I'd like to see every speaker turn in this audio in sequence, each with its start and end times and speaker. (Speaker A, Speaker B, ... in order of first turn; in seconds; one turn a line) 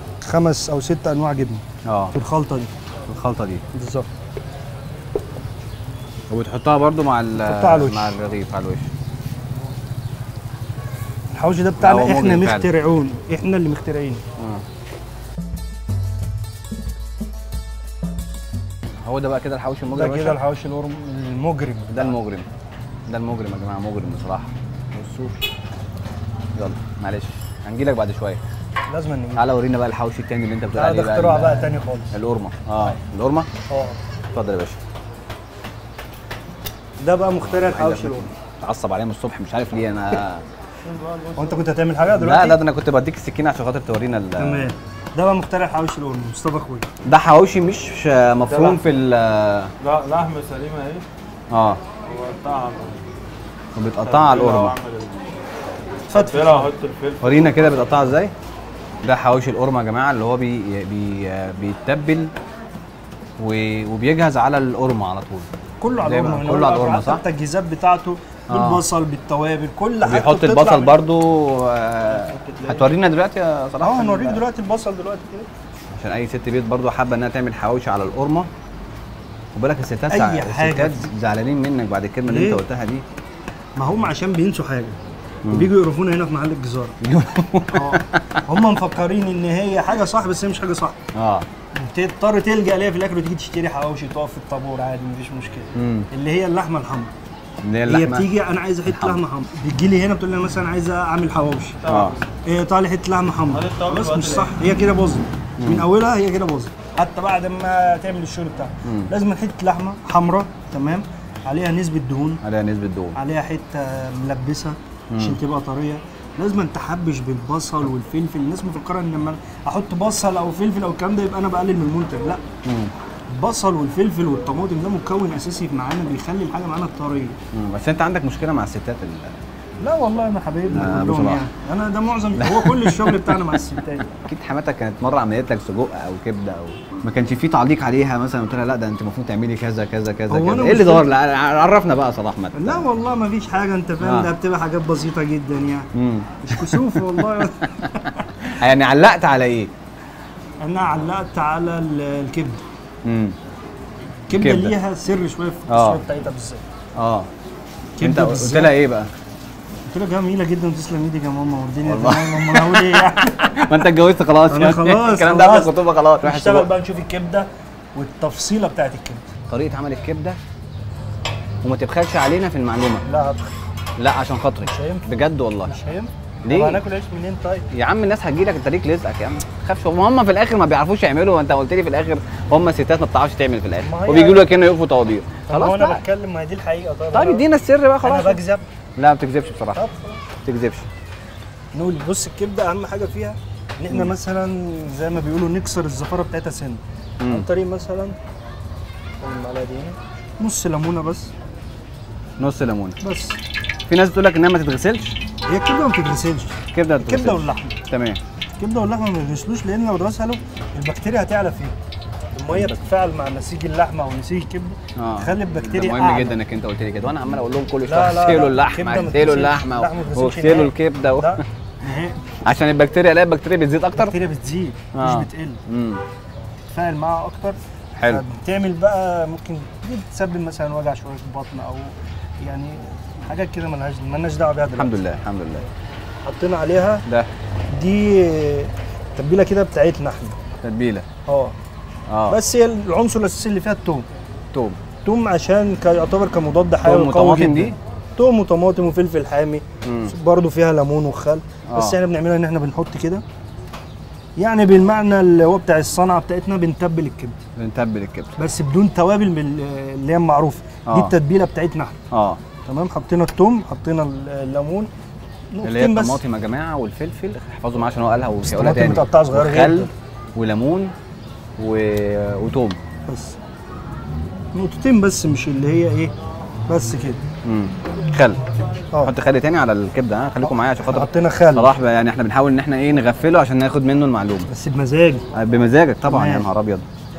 Speaker A: 0.2-2.7
Speaker B: 1.8-2.1
Speaker B: 3.1-3.6
Speaker A: 3.7-4.1
Speaker B: 6.3-8.9
Speaker A: 7.4-8.1
Speaker A: 11.3-14.2
Speaker B: 11.8-12.7
Speaker B: 14.4-14.6
Speaker B: 19.0-20.4
Speaker A: 19.9-22.1
Speaker B: 21.9-22.5
Speaker B: 23.1-25.4
Speaker B: 26.6-28.4
Speaker A: 28.9-29.4
Speaker B: 29.4-33.5
Speaker A: 30.7-32.1
Speaker A: 33.7-34.0
Speaker B: 34.3-34.8
Speaker A: 37.0-38.3
Speaker B: 37.3-40.4
Speaker C: 41.0-41.3
Speaker A: 41.3-42.6
Speaker B: 42.1-44.7
Speaker A: 44.4-46.9
Speaker B: 47.0-49.7
Speaker C: 49.8-51.0
Speaker B: 51.5-51.8
Speaker C: 52.0-53.0
Speaker B: 53.8-54.8
Speaker C: 54.1-55.3
Speaker A: 56.1-56.7
Speaker C: 56.1-57.4
Speaker B: 57.2-58.3
Speaker B: 59.0-62.3
Speaker B: 63.4-65.5
Speaker A: 65.8-71.0
Speaker B: 66.0-67.2
Speaker B: 68.5-68.8
Speaker B: 70.0-74.4
Speaker A: 72.1-72.9
Speaker A: 73.8-75.5
Speaker B: 75.9-78.5
Speaker B: 79.5-83.0
Speaker A: 80.1-81.1
Speaker A: 82.2-82.6
Speaker A: 83.8-85.0
Speaker A: 85.5-87.0
Speaker B: 87.0-88.3
Speaker A: 87.7-91.0
Speaker B: 91.1-91.5
Speaker A: 91.7-97.1
Speaker B: 95.7-96.1
Speaker B: 97.6-98.3
Speaker A: 97.9-101.8
Speaker B: 98.9-99.2
Speaker C: 101.8-102.2
Speaker B: 101.8-102.2
Speaker A: 102.4-112.4
Speaker C: 103.6-104.5
Speaker B: 105.6-105.8
Speaker B: 108.8-109.1
Speaker B: 112.4-113.2
Speaker A: 113.2-122.4
Speaker B: 115.1-115.4
Speaker B: 122.6-122.9
Speaker A: 123.3-127.4
Speaker B: 127.5-129.4
Speaker A: 129.8-134.1
Speaker B: 130.7-131.4
Speaker B: 132.3-133.6
Speaker B: 134.2-142.8
Speaker A: 140.3-141.1
Speaker A: 142.5-145.9
Speaker B: 144.0-144.3
Speaker B: 145.9-147.8
Speaker A: 146.4-148.2
Speaker B: 148.4-149.7
Speaker A: 150.6-152.6
Speaker B: 153.0-153.4
Speaker A: 154.3-156.6
Speaker B: 154.3-154.7
Speaker B: 155.7-156.0
Speaker B: 156.9-157.3
Speaker A: 158.0-158.8
Speaker B: 158.0-159.1
Speaker A: 159.9-163.9
Speaker B: 161.8-166.7
Speaker A: 164.5-169.2
Speaker B: 169.5-170.4
Speaker B: 171.6-173.0
Speaker A: 173.0-173.5
Speaker B: 174.0-175.7
Speaker A: 174.6-175.1
Speaker A: 175.6-177.7
Speaker B: 176.4-176.8
Speaker B: 177.7-186.0
Speaker A: 183.8-184.4
Speaker A: 185.5-187.4
Speaker B: 187.1-188.4
Speaker A: 188.0-188.7
Speaker B: 189.0-189.8
Speaker A: 189.7-190.2
Speaker B: 190.4-190.9
Speaker A: 191.7-198.2
Speaker B: 197.2-197.5
Speaker A: 199.2-201.3
Speaker B: 202.4-203.0
Speaker A: 203.0-203.4
Speaker B: 203.9-205.2
Speaker A: 205.5-207.8
Speaker B: 206.7-208.2
Speaker A: 208.6-211.7
Speaker A: 212.3-216.4
Speaker B: 212.5-212.8
Speaker B: 214.9-221.4
Speaker A: 217.8-222.2
Speaker B: 222.4-224.1
Speaker A: 223.9-225.6
Speaker B: 224.9-226.0
Speaker A: 226.7-235.0
Speaker B: 228.0-228.2
Speaker B: 234.8-235.7
Speaker A: 236.2-237.0
Speaker A: 237.7-240.4
Speaker B: 240.6-241.1
Speaker A: 241.3-241.5
Speaker B: 242.1-242.4
Speaker A: 242.3-244.1
Speaker B: 244.5-244.8
Speaker A: 245.0-253.2
Speaker B: 246.8-247.8
Speaker B: 249.8-250.1
Speaker B: 251.7-251.9
Speaker A: 254.4-257.4
Speaker B: 257.6-258.4
Speaker A: 258.4-262.0
Speaker B: 260.9-261.1
Speaker B: 262.1-262.4
Speaker A: 262.6-264.9
Speaker A: 265.5-266.2
Speaker B: 265.6-270.9
Speaker A: 268.4-269.9
Speaker B: 271.6-272.8
Speaker A: 273.1-273.4
Speaker A: 274.5-276.1
Speaker A: 276.7-277.2
Speaker B: 277.4-278.4
Speaker B: 279.0-284.5
Speaker A: 280.4-281.7
Speaker A: 284.5-285.2
Speaker B: 285.3-286.9
Speaker A: 286.0-286.5